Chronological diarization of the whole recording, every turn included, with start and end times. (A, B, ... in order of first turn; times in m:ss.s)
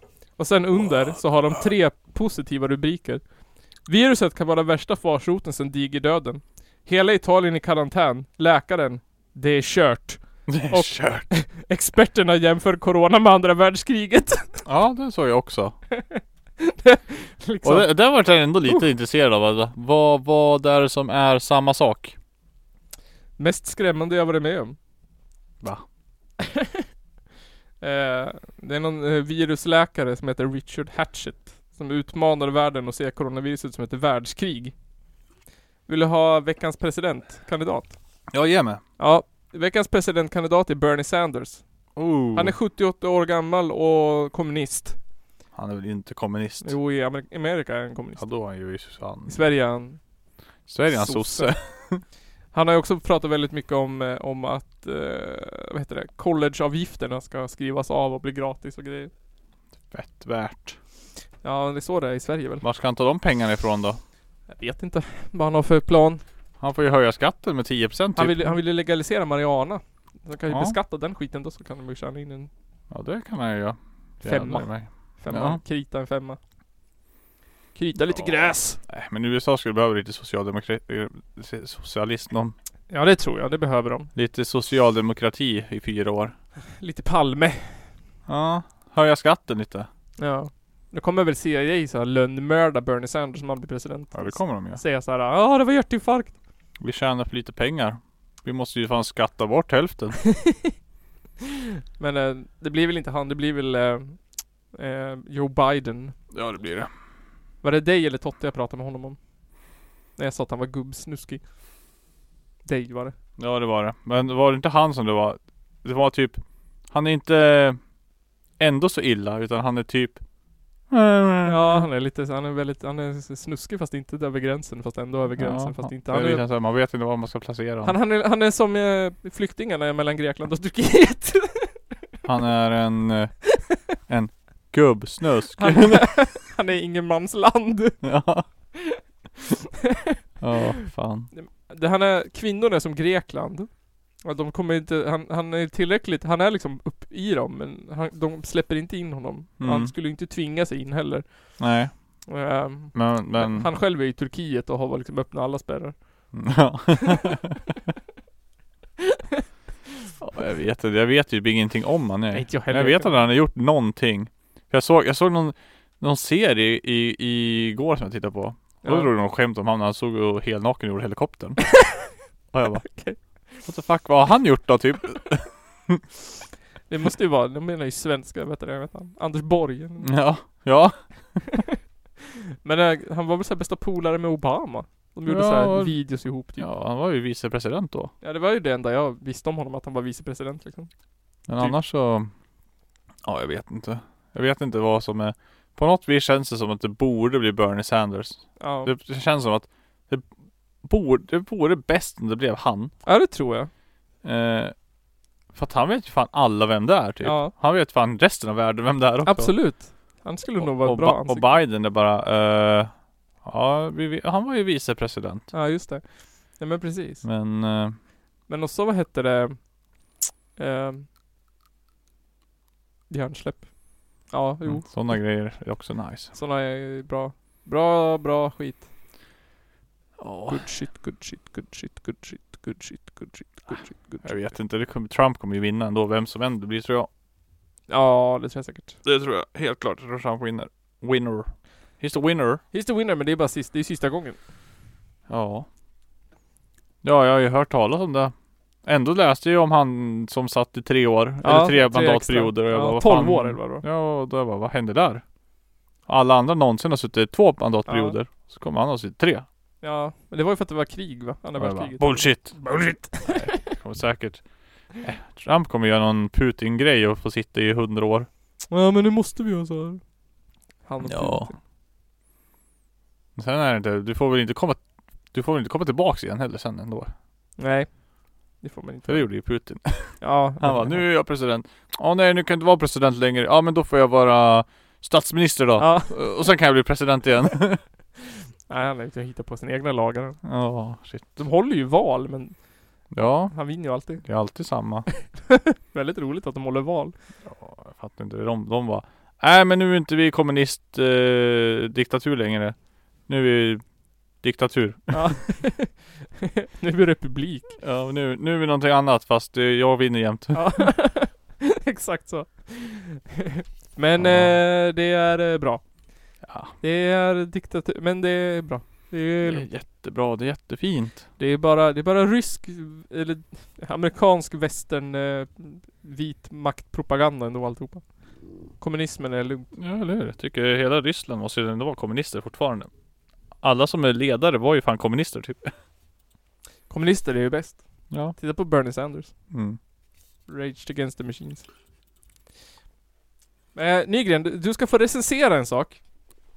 0:00.4-0:03.2 A
0:03.8-0:14.6 A
0:10.5-0:11.3 B
0:14.6-0:15.8 B
0:16.0-0:17.9 A
0:17.6-0:22.1 B
0:23.4-0:24.8 A
0:27.8-0:34.7 A
0:35.9-0:38.0 A
0:38.3-0:38.8 B
0:39.0-0:41.6 A
0:41.9-0:42.5 B
0:42.3-0:45.0 A
0:45.5-0:46.8 B
0:46.6-0:48.3 A
0:48.2-0:49.5 B
0:49.3-0:50.0 A
0:50.7-0:52.0 B
0:50.9-0:51.5 A
0:52.5-0:59.1 A
0:59.9-1:00.8 B
1:01.4-1:02.6 A
1:02.6-1:04.0 B
1:04.5-1:06.2 A
1:06.6-1:08.6 B
1:08.2-1:12.5 A
1:10.5-1:10.8 B
1:12.9-1:15.6 B
1:14.2-1:16.4 A
1:17.7-1:18.8 A
1:18.1-1:22.5 B
1:22.9-1:24.1 A
1:24.1-1:26.3 B
1:26.8-1:27.9 A
1:28.3-1:29.9 B
1:30.2-1:36.3 A
1:34.1-1:34.8 B
1:36.8-1:40.2 B
1:42.0-1:46.2 A
1:46.3-1:46.9 B
1:47.6-1:49.2 A
1:50.2-1:51.4 A
1:52.6-1:53.1 A
1:53.4-1:57.8 B
1:58.6-2:00.2 B
2:00.9-2:01.8 B
2:01.4-2:06.4 A
2:05.4-2:07.9 B
2:07.8-2:11.8 A
2:12.2-2:13.4 B
2:14.1-2:16.1 B
2:15.6-2:18.0 A
2:18.0-2:18.5 B
2:18.7-2:19.0 A
2:20.4-2:21.3 B
2:21.3-2:31.6 A
2:29.6-2:29.9 B
2:31.6-2:32.3 B
2:32.3-2:36.4 A
2:32.9-2:33.7 B
2:36.3-2:37.5 B
2:40.2-2:51.8 B
2:42.3-2:43.2 A
2:48.8-2:49.1 A
2:52.5-2:56.0 B
2:52.8-2:53.4 A
2:56.9-3:00.6 A
3:00.0-3:01.4 B
3:02.6-3:06.6 A
3:05.2-3:08.1 B
3:08.2-3:10.9 A
3:11.5-3:12.3 B
3:13.2-3:20.3 B
3:18.6-3:18.9 A
3:20.8-3:22.9 B
3:23.0-3:23.7 A
3:24.2-3:24.7 B
3:25.5-3:29.7 B
3:27.2-3:27.5 A
3:29.2-3:31.6 A
3:30.6-3:35.5 B
3:35.5-3:37.2 A
3:37.2-3:38.0 B
3:38.5-3:39.7 A
3:40.6-3:41.0 A
3:43.1-3:45.3 A
3:44.6-3:46.3 B
3:46.3-3:48.9 A
3:50.2-3:50.6 B
3:50.5-3:54.3 A
3:54.2-3:57.1 B
3:57.9-3:59.0 A
3:59.0-4:02.6 B
4:02.7-4:04.4 A
4:05.3-4:05.7 B
4:07.0-4:15.2 B
4:11.4-4:13.8 A
4:16.1-4:19.4 B
4:17.9-4:18.2 A
4:19.8-4:23.6 A
4:21.6-4:24.4 B
4:25.0-4:28.3 B
4:28.7-4:30.0 A
4:30.8-4:31.6 A
4:31.0-4:31.5 B
4:33.4-4:37.1 B
4:37.6-4:41.0 A
4:39.0-4:47.8 B
4:45.8-4:46.1 A
4:48.7-4:50.4 A
4:50.4-4:51.4 B
4:51.4-4:52.6 A
4:53.1-4:55.1 B
4:53.5-4:54.2 A
4:55.1-4:57.1 A
4:57.4-5:03.8 B
5:04.4-5:05.4 B
5:05.1-5:06.0 A
5:06.8-5:07.8 A
5:07.8-5:10.9 B
5:10.5-5:19.7 A
5:14.2-5:14.6 B
5:16.4-5:16.7 B
5:19.4-5:21.2 B
5:21.4-5:28.1 A
5:28.8-5:29.7 A
5:29.7-5:32.9 B
5:33.6-5:35.7 B
5:36.9-5:39.3 A
5:38.1-5:38.4 B
5:39.5-5:39.8 B
5:40.5-5:41.6 A
5:43.7-5:46.0 A